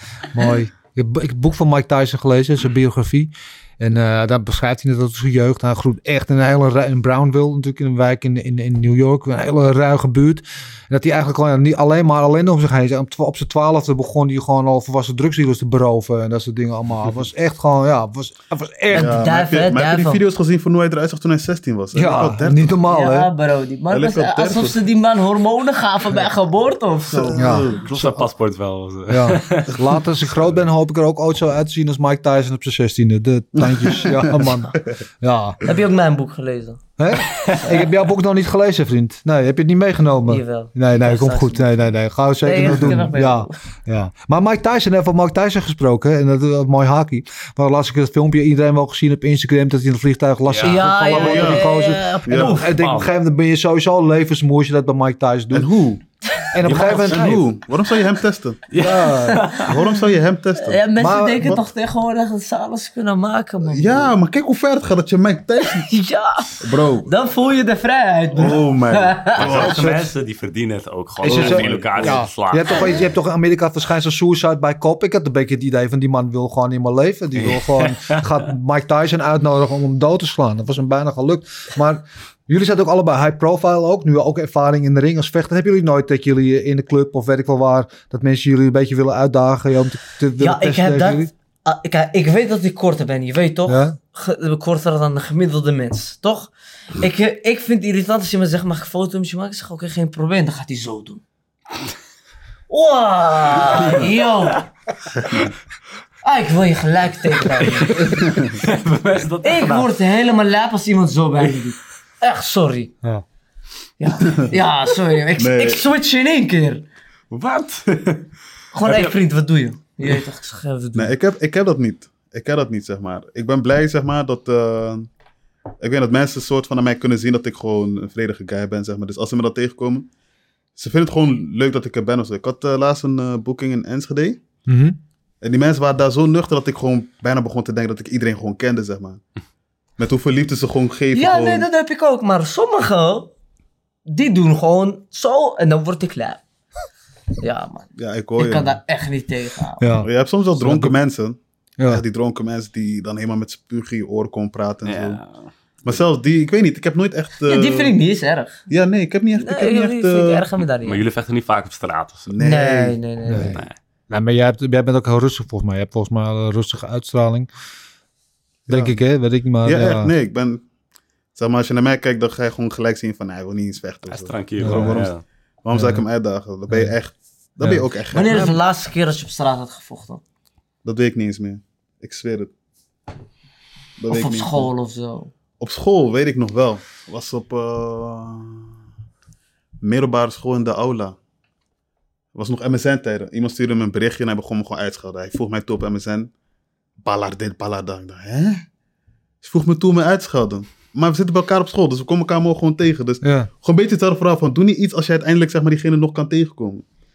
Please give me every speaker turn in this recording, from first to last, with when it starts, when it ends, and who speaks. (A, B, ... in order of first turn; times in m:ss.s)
0:00.3-0:19.2 A
0:18.9-0:20.2 B
0:18.9-0:22.8 C
0:21.9-0:23.3 A
0:22.9-0:27.6 B
0:23.9-0:24.8 C
0:27.1-0:27.9 C
0:27.3-0:28.3 A
0:27.8-0:30.0 D
0:29.1-0:35.6 A
0:33.6-0:34.9 C
0:35.6-0:36.8 B
0:37.0-0:55.7 A
0:37.5-0:37.8 B
0:40.3-0:41.7 B
0:42.4-0:43.5 B
0:50.5-0:51.3 D
0:50.6-0:52.7 B
0:51.1-0:51.6 C
0:52.2-0:52.6 C
0:52.6-0:53.1 D
0:55.5-0:56.0 C
0:56.5-0:57.4 A
0:56.6-0:57.3 D
0:56.6-0:58.6 C
0:58.7-0:59.8 D
0:58.8-0:59.5 A
0:59.5-1:00.8 C
1:00.6-1:04.1 B
1:01.0-1:01.6 A
1:03.6-1:05.9 C
1:05.6-1:09.7 B
1:06.6-1:07.1 C
1:08.3-1:09.8 C
1:09.3-1:13.0 D
1:09.6-1:10.1 A
1:11.2-1:31.3 A
1:11.2-1:12.2 C
1:17.4-1:18.2 D
1:30.4-1:41.2 B
1:33.7-1:34.0 A
1:42.7-1:44.6 B
1:43.7-1:44.0 D
1:46.2-1:48.4 B
1:47.6-1:49.9 D
1:49.4-1:52.9 B
1:54.0-1:56.8 B
1:55.4-1:55.8 C
1:57.3-1:58.3 D
1:58.7-2:01.1 B
1:58.8-1:59.1 D
2:00.9-2:05.1 C
2:05.8-2:10.1 C
2:10.8-2:14.4 C
2:14.7-2:15.0 A
2:15.4-2:19.2 C
2:20.0-2:21.7 C
2:21.1-2:23.3 B
2:24.0-2:26.4 B
2:27.4-2:29.9 B
2:28.0-2:28.8 C
2:29.8-2:31.0 A
2:30.0-2:35.2 C
2:34.8-2:35.5 D
2:35.8-2:37.9 C
2:37.4-2:38.6 B
2:38.7-2:40.5 C
2:39.4-2:41.0 B
2:40.8-2:42.3 D
2:42.3-2:43.0 C
2:42.4-2:43.6 B
2:43.3-2:47.5 A
2:43.3-2:43.7 D
2:48.7-2:48.9 C
2:48.7-2:50.1 A
2:49.6-2:50.6 C
2:51.3-2:55.1 C
2:54.1-2:55.2 D
2:54.6-2:55.0 A
2:55.6-2:58.6 C
2:55.7-2:56.0 A
2:56.7-2:57.0 A
2:58.1-3:00.2 B
3:00.8-3:02.5 C
3:04.0-3:04.7 C
3:04.1-3:05.3 B
3:05.6-3:08.7 C
3:09.8-3:11.2 C
3:12.3-3:16.3 C
3:17.0-3:18.6 C
3:19.4-3:26.8 C
3:23.2-3:23.5 A